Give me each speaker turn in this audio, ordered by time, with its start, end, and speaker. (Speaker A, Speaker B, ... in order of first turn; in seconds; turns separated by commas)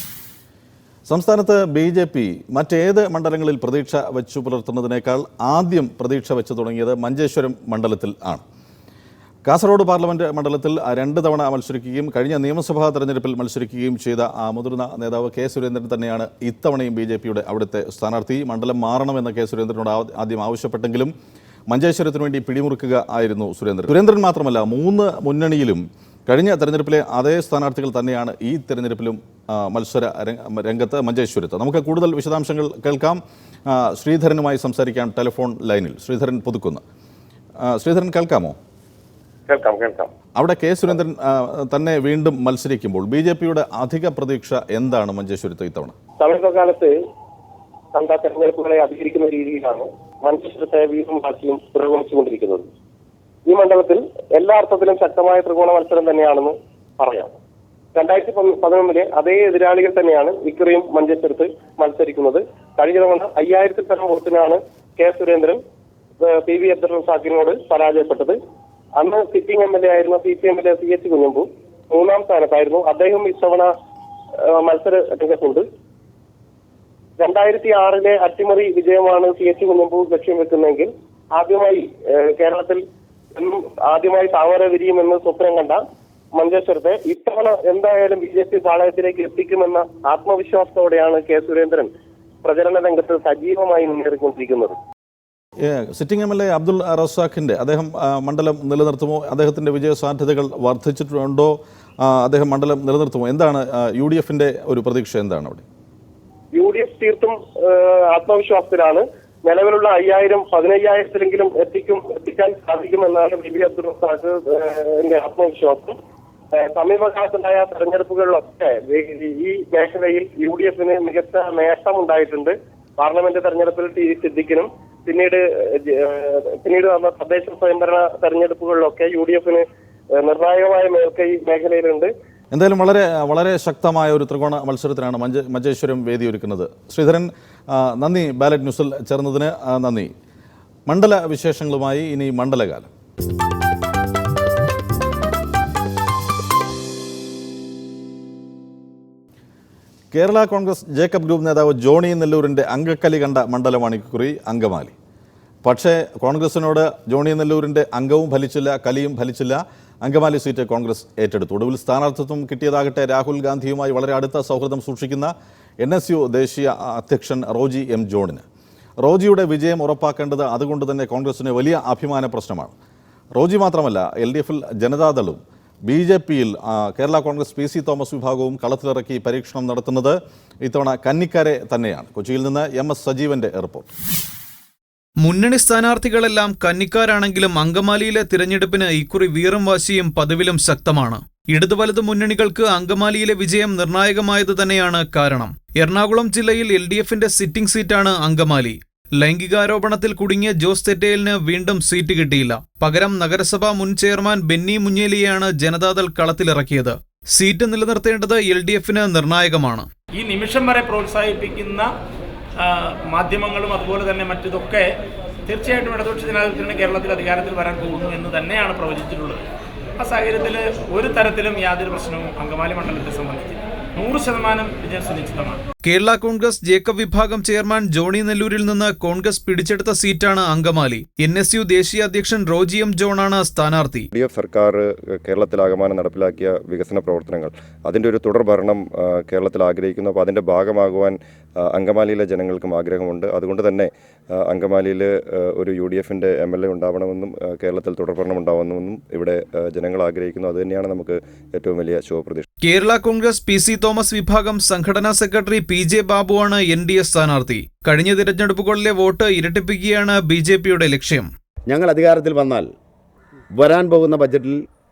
Speaker A: 1.1-8.4, Speaker A: 9.5-21.1, Speaker A: 21.7-36.8, Speaker A: 37.6-38.6, Speaker B: 39.5-40.1, Speaker A: 40.4-45.9, Speaker B: 46.2-46.9, Speaker B: 47.9-52.7, Speaker B: 53.5-57.4, Speaker B: 57.9-65.6, Speaker B: 66.2-68.4, Speaker B: 69.0-73.7, Speaker B: 74.4-75.7, Speaker B: 77.2-82.8, Speaker B: 83.3-85.8, Speaker B: 86.3-91.9, Speaker B: 92.4-94.8, Speaker A: 95.7-105.7, Speaker B: 106.5-116.0, Speaker B: 116.5-132.1, Speaker A: 132.5-140.1, Speaker A: 140.9-142.9, Speaker A: 150.1-154.9, Speaker A: 155.6-168.4, Speaker A: 169.0-172.7, Speaker A: 173.4-183.9, Speaker C: 185.2-209.9, Speaker D: 210.1-211.9, Speaker D: 212.6-219.4, Speaker D: 220.0-225.6, Speaker C: 225.8-234.1, Speaker E: 234.1-252.4, Speaker C: 252.6-261.3, Speaker F: 261.7-262.7, Speaker F: 263.6-264.6